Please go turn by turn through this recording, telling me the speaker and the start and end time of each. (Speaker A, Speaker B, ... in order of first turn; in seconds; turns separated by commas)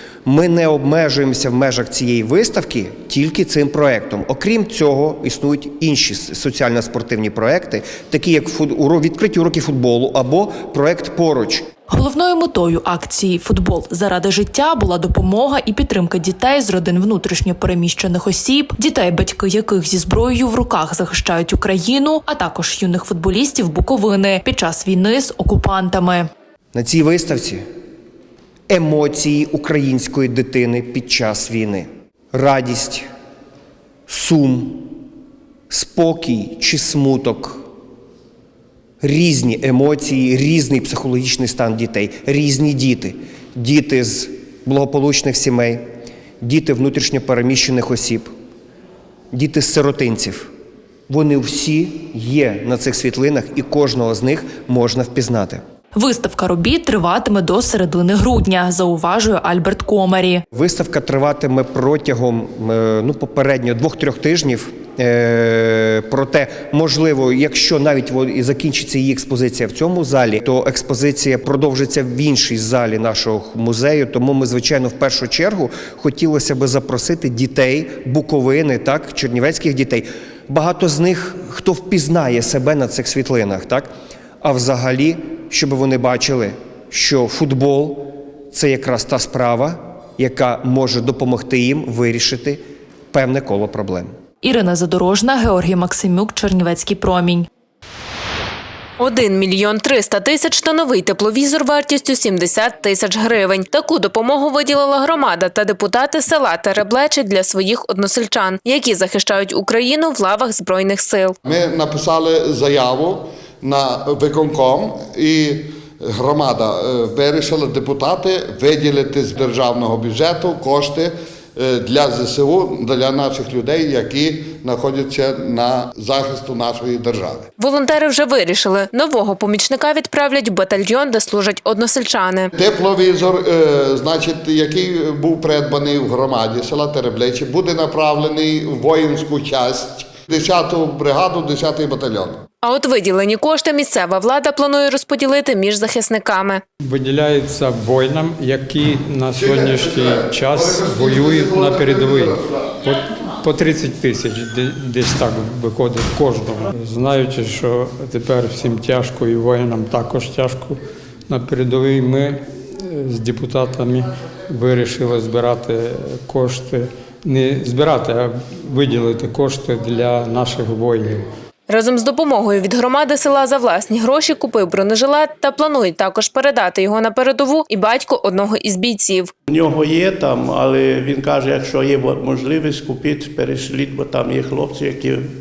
Speaker A: 0.2-11.7, Speaker B: 11.9-26.3, Speaker A: 26.7-27.6, Speaker A: 28.7-33.1, Speaker A: 34.1-34.9, Speaker A: 35.7-37.6, Speaker A: 39.0-45.9, Speaker A: 46.4-48.3, Speaker A: 49.3-50.5, Speaker A: 51.1-55.6, Speaker B: 55.9-60.4, Speaker A: 60.5-83.9, Speaker A: 84.4-94.1, Speaker B: 94.4-97.5, Speaker C: 99.0-111.3, Speaker D: 111.4-113.0, Speaker D: 114.4-115.0, Speaker D: 116.3-116.5, Speaker D: 117.3-120.9, Speaker D: 122.0-127.3, Speaker C: 127.6-132.5, Speaker D: 132.6-133.4, Speaker D: 133.9-142.3, Speaker C: 142.6-146.6, Speaker E: 146.8-171.3, Speaker D: 149.4-152.2, Speaker C: 171.7-179.3, Speaker F: 179.5-185.2